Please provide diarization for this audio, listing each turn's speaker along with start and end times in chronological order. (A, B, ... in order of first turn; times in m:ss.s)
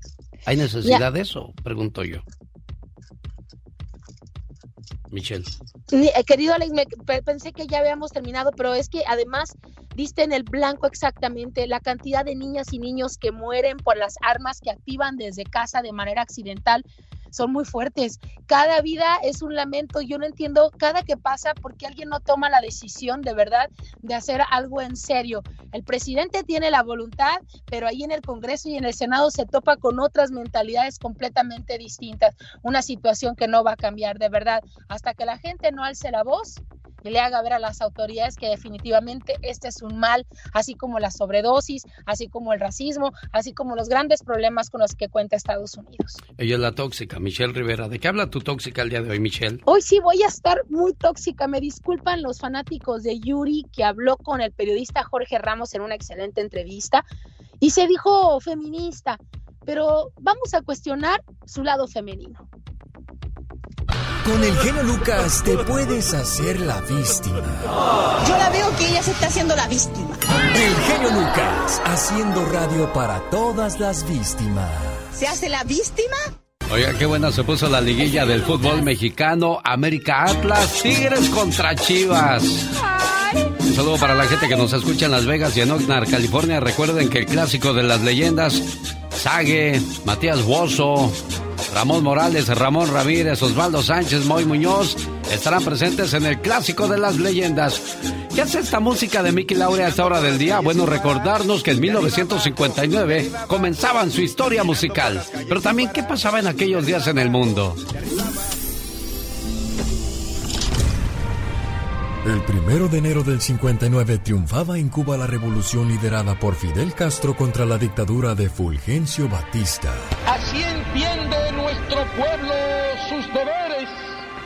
0:00.5-0:02.2 A
0:05.1-0:05.5 A
0:05.9-0:46.2 B
0:46.4-0:49.6 A
0:49.7-0:57.0 B
0:57.6-1:02.4 B
1:04.2-1:07.7 C
1:08.2-1:10.2 D
1:10.5-1:15.2 C
1:15.2-1:16.2 D
1:16.7-1:22.7 A
1:23.7-1:31.2 A
1:31.7-1:47.8 A
1:39.8-1:43.7 E
1:44.4-1:48.3 E
1:52.2-2:00.1 C
2:00.3-2:03.9 E